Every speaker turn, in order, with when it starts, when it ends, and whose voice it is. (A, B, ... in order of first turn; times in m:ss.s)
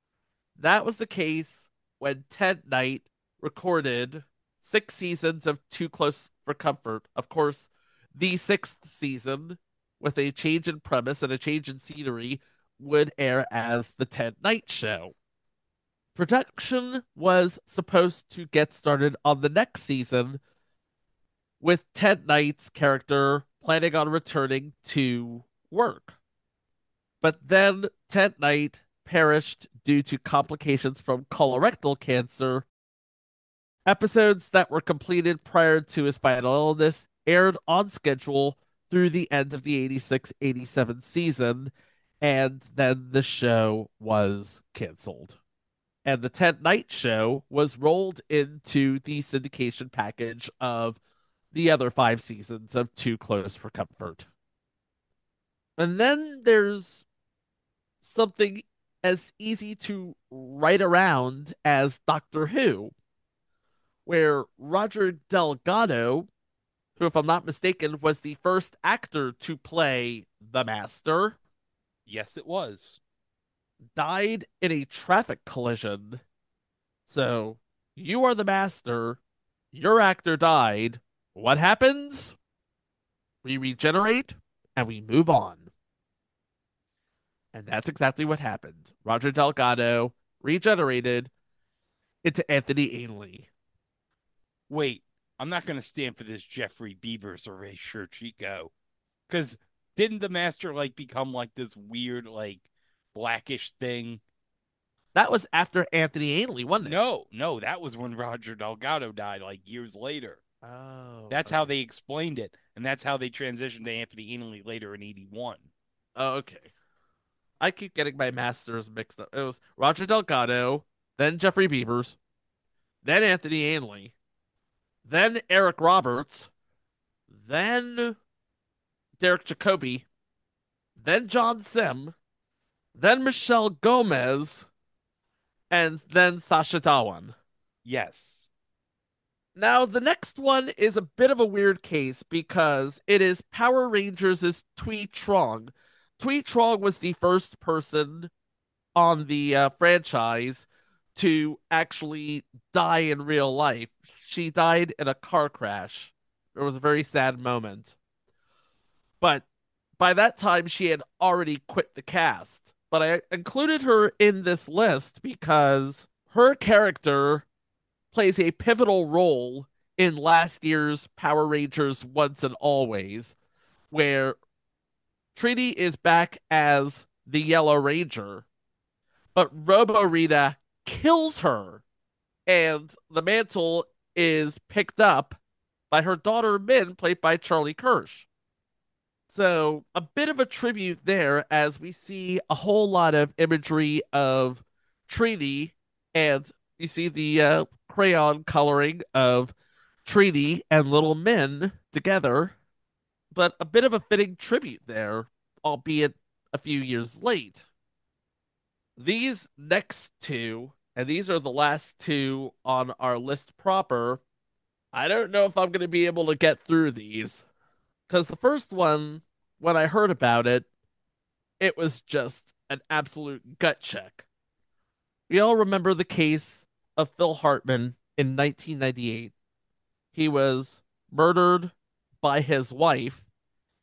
0:00.6-0:15.1 A
0:16.1-0:20.4 A
0:21.6-0:26.2 A
0:27.2-0:32.6 A
0:33.8-0:45.4 A
0:46.0-0:51.0 A
0:51.5-0:54.3 A
0:55.8-0:57.0 A
0:58.0-1:02.9 A
1:04.0-1:06.3 A
1:07.0-1:11.4 A
1:12.1-1:13.0 B
1:14.0-1:16.2 A
1:17.0-1:19.2 A
1:19.7-1:22.4 A
1:23.4-1:25.7 A
1:27.5-1:31.3 A
1:32.2-1:33.5 A
1:34.7-1:38.7 B
1:39.3-1:42.6 B
1:43.1-1:44.2 B
1:45.1-1:47.0 A
1:46.8-1:50.4 B
1:50.6-1:51.7 A
1:51.3-1:55.7 B
1:56.2-1:56.7 A
1:57.6-2:02.2 A
2:03.0-2:04.1 A
2:05.0-2:06.5 A
2:07.3-2:08.2 A
2:09.2-2:10.0 A
2:11.0-2:12.1 A
2:12.9-2:14.7 A
2:15.7-2:17.3 A
2:17.8-2:18.5 B
2:19.6-2:28.3 A
2:29.0-2:38.0 A
2:40.0-2:47.4 A
2:48.1-2:53.3 A
2:53.9-2:54.4 A
2:55.3-2:58.4 A
2:59.3-3:01.8 A
3:02.5-3:05.4 A
3:05.9-3:08.3 A
3:09.3-3:22.5 A
3:23.3-3:27.6 A
3:29.0-3:34.2 A
3:34.9-3:37.4 A
3:38.1-3:40.6 A
3:41.6-3:44.2 A
3:45.3-3:49.3 A
3:50.1-3:53.2 A